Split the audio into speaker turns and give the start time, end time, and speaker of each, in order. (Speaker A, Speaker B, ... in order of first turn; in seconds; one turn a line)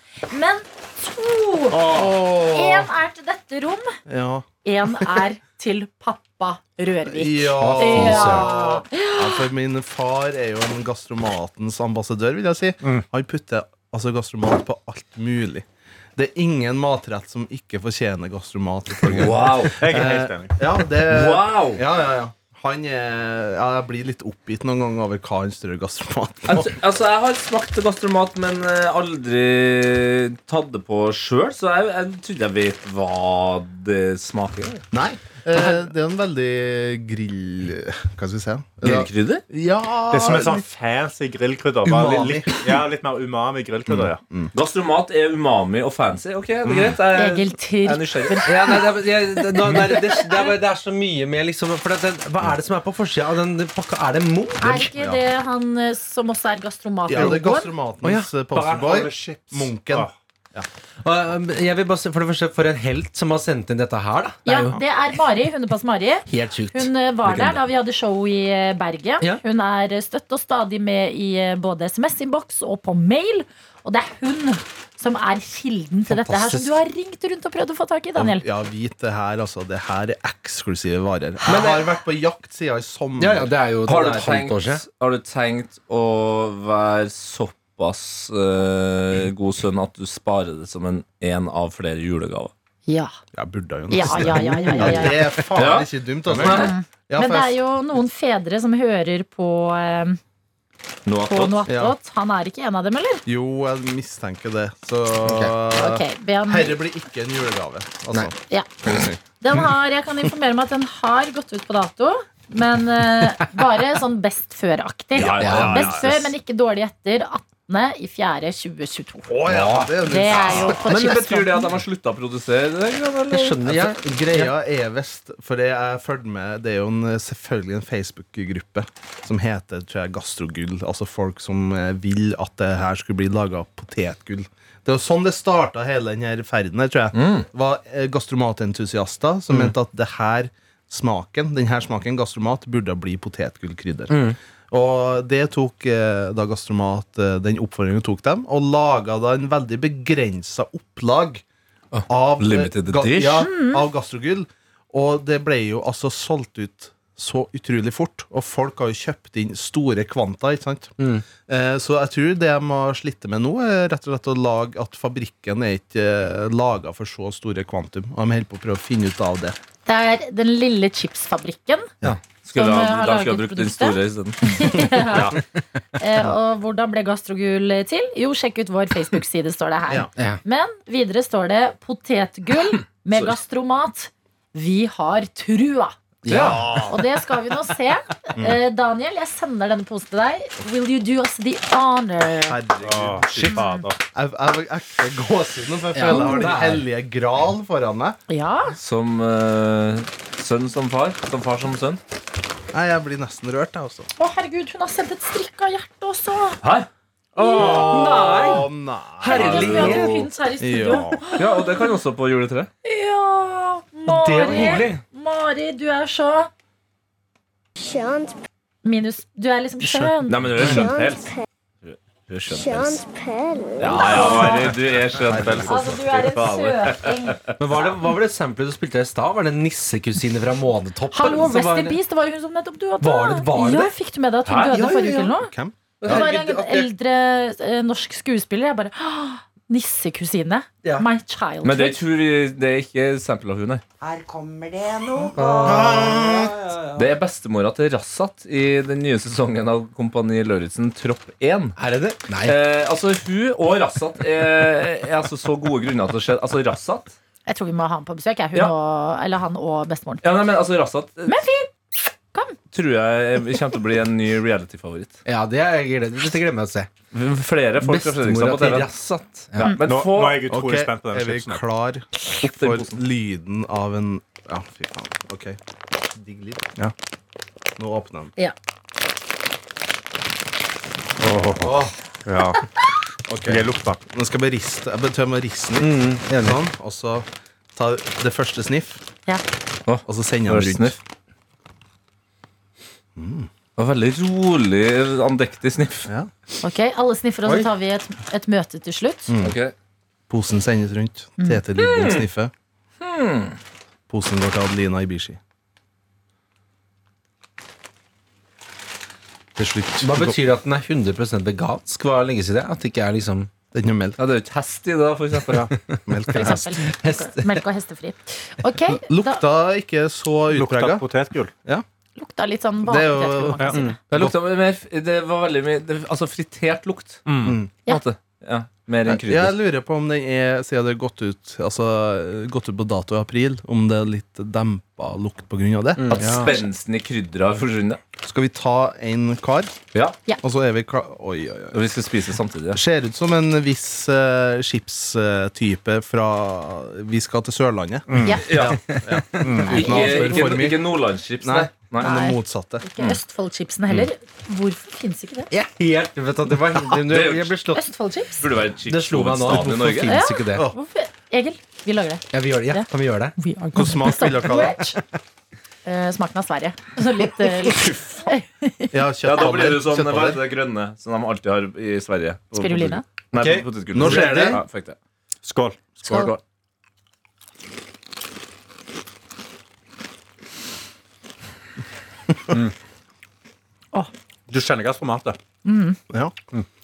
Speaker A: 0.3-3.9
Speaker B: 1.7-2.1
Speaker C: 1.8-2.9
Speaker C: 4.1-4.5
Speaker A: 4.6-9.5
Speaker C: 7.1-26.7
Speaker D: 7.5-8.6
Speaker E: 19.1-19.8
Speaker B: 19.3-20.6
Speaker E: 21.1-21.8
Speaker E: 26.5-34.8
Speaker C: 34.9-40.6
Speaker E: 38.8-39.4
Speaker B: 40.1-44.2
Speaker C: 41.9-42.6
Speaker D: 41.9-42.5
Speaker C: 43.9-44.5
Speaker E: 44.5-48.5
Speaker A: 47.1-50.5
Speaker D: 48.5-54.9
Speaker A: 54.6-57.7
Speaker C: 55.0-55.2
Speaker C: 57.1-60.7
Speaker D: 57.1-57.4
Speaker D: 58.0-58.3
Speaker B: 58.5-60.1
Speaker D: 61.0-64.8
Speaker A: 64.5-78.4
Speaker D: 66.3-67.6
Speaker D: 76.1-76.8
Speaker C: 78.2-83.5
Speaker D: 81.5-82.0
Speaker D: 83.2-84.8
Speaker E: 83.8-92.5
Speaker A: 92.9-93.1
Speaker C: 93.3-97.5
Speaker A: 93.9-95.2
Speaker E: 95.5-96.7
Speaker A: 96.4-100.2
Speaker E: 101.1-101.6
Speaker A: 101.3-103.2
Speaker C: 101.7-102.0
Speaker C: 103.3-109.2
Speaker D: 105.2-105.5
Speaker A: 105.7-106.8
Speaker A: 109.3-119.3
Speaker E: 115.2-116.3
Speaker B: 115.3-116.1
Speaker D: 115.4-116.0
Speaker C: 119.3-120.9
Speaker D: 119.5-120.5
Speaker A: 120.0-121.8
Speaker E: 120.8-123.6
Speaker D: 123.3-124.5
Speaker C: 123.7-144.2
Speaker E: 137.1-137.5
Speaker D: 144.1-144.4
Speaker C: 144.7-151.4
Speaker E: 151.9-153.5
Speaker C: 152.1-160.9
Speaker A: 153.4-153.8
Speaker D: 161.0-161.2
Speaker C: 161.5-169.6
Speaker A: 169.9-171.9
Speaker E: 172.0-174.9
Speaker A: 172.5-175.4
Speaker B: 175.1-175.4
Speaker A: 176.0-186.0
Speaker D: 186.2-186.8
Speaker E: 186.3-186.7
Speaker B: 186.3-187.0
Speaker A: 186.9-192.6
Speaker C: 192.5-198.2
Speaker B: 192.8-194.0
Speaker A: 193.5-193.8
Speaker D: 195.9-196.8
Speaker A: 196.1-196.5
Speaker A: 198.3-198.8
Speaker E: 198.8-202.0
Speaker C: 202.7-204.1
Speaker A: 204.2-206.6
Speaker E: 206.6-206.9
Speaker A: 207.4-207.9
Speaker D: 207.4-208.7
Speaker C: 207.5-211.4
Speaker E: 207.6-208.6
Speaker D: 209.2-210.3
Speaker A: 209.3-211.8
Speaker E: 211.4-212.7
Speaker A: 212.8-216.5
Speaker D: 214.1-215.0
Speaker A: 218.8-220.4
Speaker C: 219.9-220.8
Speaker E: 220.3-223.1
Speaker E: 223.8-227.4
Speaker A: 224.0-224.6
Speaker C: 224.1-226.0
Speaker A: 225.7-227.5
Speaker D: 227.6-232.0
Speaker A: 231.1-235.5
Speaker D: 233.0-233.9
Speaker E: 234.4-234.8
Speaker D: 234.7-235.3
Speaker C: 235.3-236.3
Speaker E: 236.0-236.8
Speaker A: 236.1-242.0
Speaker D: 236.1-236.8
Speaker E: 241.6-243.8
Speaker F: 244.0-247.1
Speaker D: 245.3-246.4
Speaker C: 245.6-246.5
Speaker E: 247.0-251.8
Speaker D: 251.8-252.6
Speaker E: 252.4-257.2
Speaker A: 257.5-260.2
Speaker E: 260.2-261.4
Speaker A: 261.3-261.7
Speaker E: 262.7-265.2
Speaker D: 265.3-266.9
Speaker E: 267.1-270.5
Speaker D: 267.8-269.8
Speaker B: 269.9-271.6
Speaker C: 270.5-275.6
Speaker E: 272.4-273.0
Speaker C: 276.1-276.9
Speaker C: 277.8-278.3
Speaker B: 281.2-282.6
Speaker D: 281.6-281.9
Speaker C: 283.3-289.0
Speaker B: 283.5-284.0
Speaker D: 285.8-286.6
Speaker E: 289.9-291.0
Speaker C: 290.1-291.0
Speaker C: 293.2-293.5
Speaker E: 293.8-296.1
Speaker A: 296.6-299.3
Speaker C: 299.3-299.5
Speaker E: 299.4-299.7
Speaker C: 300.3-302.5
Speaker E: 301.8-302.2
Speaker E: 303.0-303.6
Speaker C: 304.1-305.4
Speaker C: 309.6-310.4
Speaker D: 310.0-313.5
Speaker C: 313.7-314.2
Speaker E: 314.2-315.7
Speaker C: 315.5-316.7
Speaker D: 315.9-317.6
Speaker A: 316.3-319.4
Speaker C: 318.9-321.1
Speaker B: 320.5-321.5
Speaker A: 322.2-324.0
Speaker C: 322.9-324.4
Speaker E: 324.1-327.2
Speaker B: 327.3-327.6
Speaker C: 327.4-327.7
Speaker E: 327.9-329.6
Speaker C: 329.1-336.5
Speaker D: 336.0-336.4
Speaker E: 336.1-338.0
Speaker C: 338.2-339.7
Speaker C: 340.4-341.8
Speaker E: 341.7-342.8
Speaker C: 342.7-350.9
Speaker B: 348.1-348.4
Speaker E: 348.4-349.0
Speaker D: 348.7-349.7
Speaker B: 349.4-349.8
Speaker A: 349.6-350.6
Speaker E: 349.7-352.2
Speaker C: 351.4-352.9
Speaker A: 352.0-355.5
Speaker D: 355.5-357.8
Speaker E: 357.0-357.6
Speaker A: 357.7-358.4
Speaker E: 358.4-360.2
Speaker D: 358.9-360.7
Speaker A: 360.1-365.0
Speaker D: 362.3-363.4
Speaker C: 363.8-364.9
Speaker A: 365.9-368.9
Speaker C: 368.9-370.4
Speaker E: 369.2-375.0
Speaker A: 372.6-373.0
Speaker D: 373.4-374.6
Speaker C: 373.9-374.6
Speaker B: 375.4-376.4
Speaker A: 376.1-376.3
Speaker B: 384.5-385.4
Speaker A: 385.6-386.0
Speaker C: 386.1-386.4